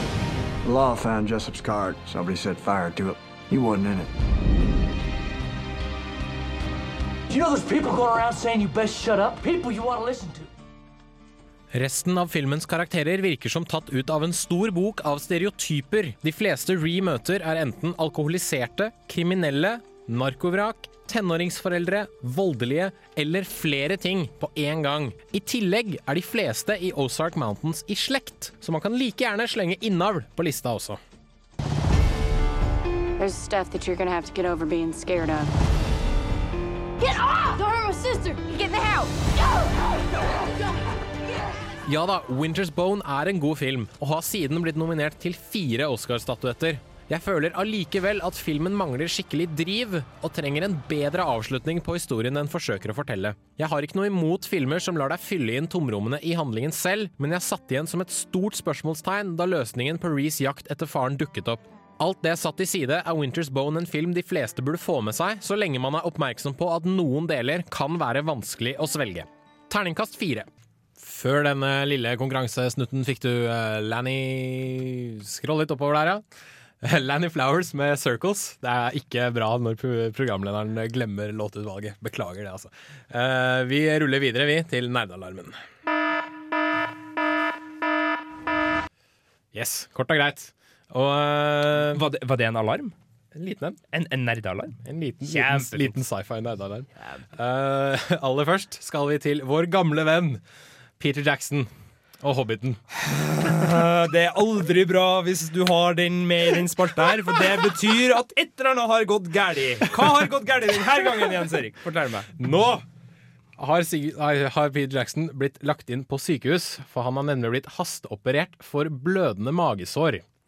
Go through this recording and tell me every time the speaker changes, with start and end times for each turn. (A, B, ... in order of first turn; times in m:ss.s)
0:00.6-0:04.1 A
0:07.3-0:10.5 B
0:11.7-0:31.0 C
0:33.2-0:35.5 D
0:37.0-0:41.4 E
0:41.8-1:10.5 C
1:11.0-1:16.2 C
1:16.8-1:25.6 C
1:29.5-1:32.0 C
1:31.8-1:32.9 F
1:33.3-1:33.8 C
1:33.9-1:36.0 F
1:34.8-1:40.4 C
1:41.0-1:41.7 C
1:42.2-1:42.8 C
1:42.9-1:52.3 F
1:52.4-1:52.8 C
1:53.6-2:00.2 C